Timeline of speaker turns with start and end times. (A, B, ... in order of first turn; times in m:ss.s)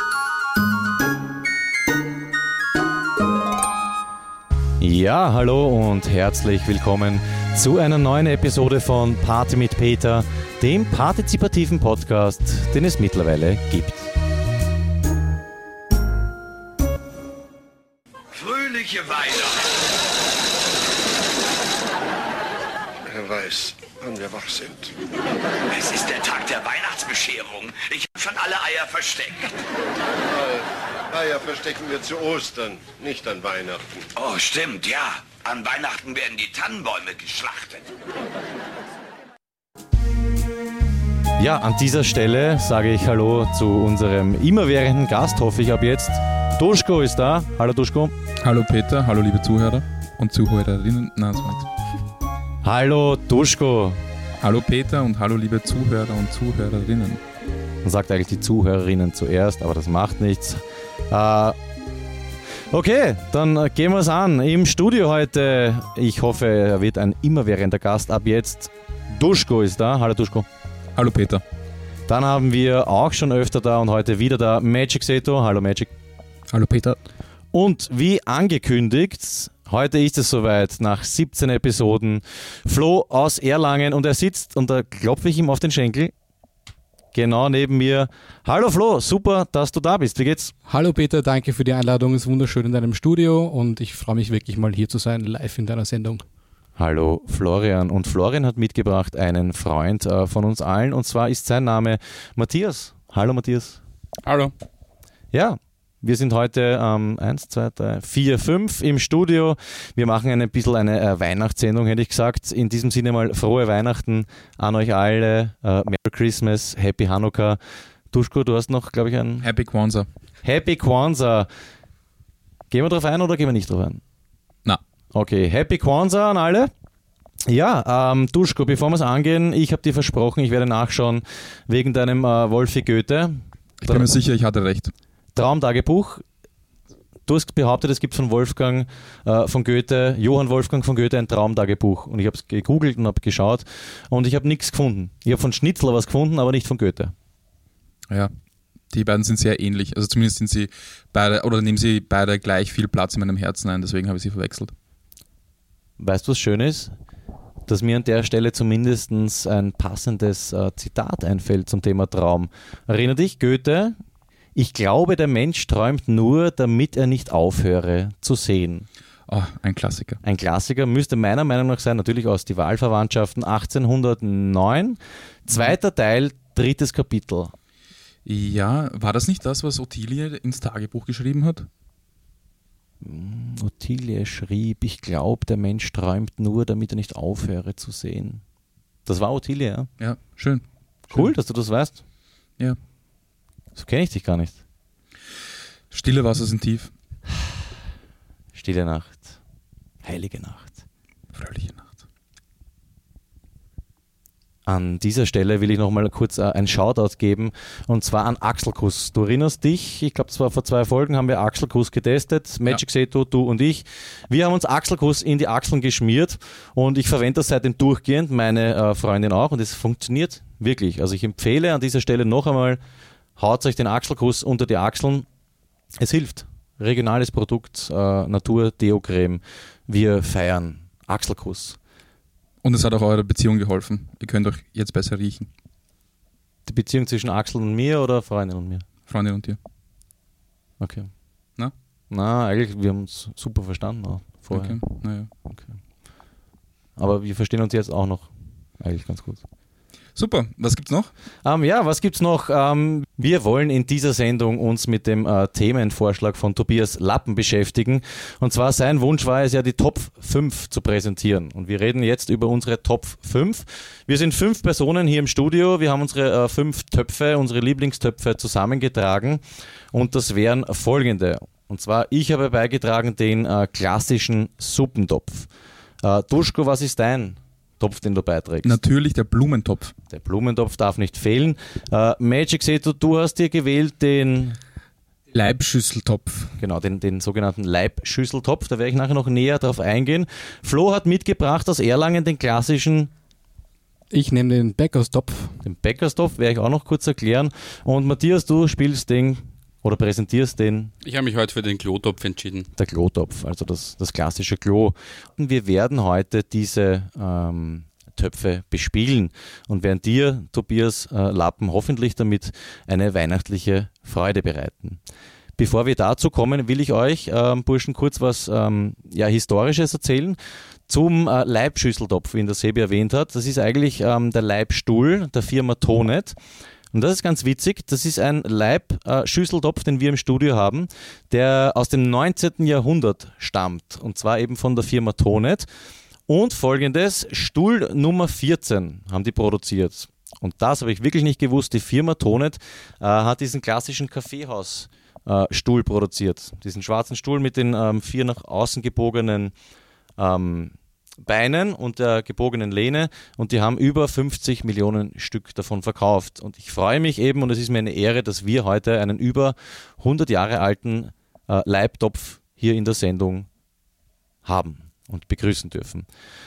0:04.8-0:14.1 A
0:18.4-0:19.6 B
0:23.1-0:24.9 C
0:25.7-0:29.5 B
0:31.1-0:34.0 C
0:34.1-0:37.9 B
0:41.4-0:48.1 A
0:48.4-0:51.7 D
0:52.6-0:54.0 A
0:54.4-0:57.2 D
0:57.8-1:01.6 A
1:02.7-1:10.5 A
1:11.0-1:11.4 D
1:12.1-1:15.9 A
1:17.5-1:26.1 A
1:27.1-1:30.5 A
1:30.6-1:36.2 E
1:36.8-1:43.8 A
1:44.2-1:44.5 F
1:45.3-1:57.6 A
1:58.1-1:59.5 A
1:59.4-2:00.1 D
2:00.4-2:01.5 A
2:02.7-2:04.0 A
2:05.1-2:06.7 A
2:07.5-2:14.1 A
2:13.8-2:14.9 D
2:15.3-2:16.2 A
2:17.2-2:27.1 A
2:28.9-2:34.7 D
2:36.0-2:36.9 A
2:37.7-2:43.9 A
2:44.6-2:48.9 A
2:49.3-2:50.2 D
2:50.2-2:57.5 A
2:58.2-3:01.7 D
3:03.0-3:08.4 A
3:09.0-3:09.9 A
3:10.0-3:11.3 D
3:11.1-3:12.0 A
3:13.7-3:14.6 A
3:15.9-3:16.9 D
3:18.5-3:19.4 A
3:20.0-3:20.8 A
3:21.3-3:22.0 D
3:24.6-3:42.8 A
3:43.4-3:45.3 A
3:46.0-3:51.8 A
3:52.6-3:55.5 D
3:56.6-3:58.8 A
3:59.0-3:59.6 D
4:00.8-4:01.1 A
4:02.1-4:05.8 A
4:04.5-4:05.3 D
4:07.0-4:09.4 A
4:10.1-4:11.1 D
4:11.4-4:35.5 A
4:36.0-4:38.8 A
4:38.6-4:39.9 D
4:40.1-4:44.6 A
4:45.3-4:46.5 D
4:46.6-4:53.1 A
4:54.1-4:55.6 E
4:55.6-5:00.9 A
5:01.0-5:02.7 F
5:02.8-5:15.0 A
5:15.6-5:20.4 A
5:20.9-5:26.4 A
5:26.9-5:35.7 A
5:36.3-5:49.5 A
5:50.2-6:03.5 A
6:04.4-6:06.0 A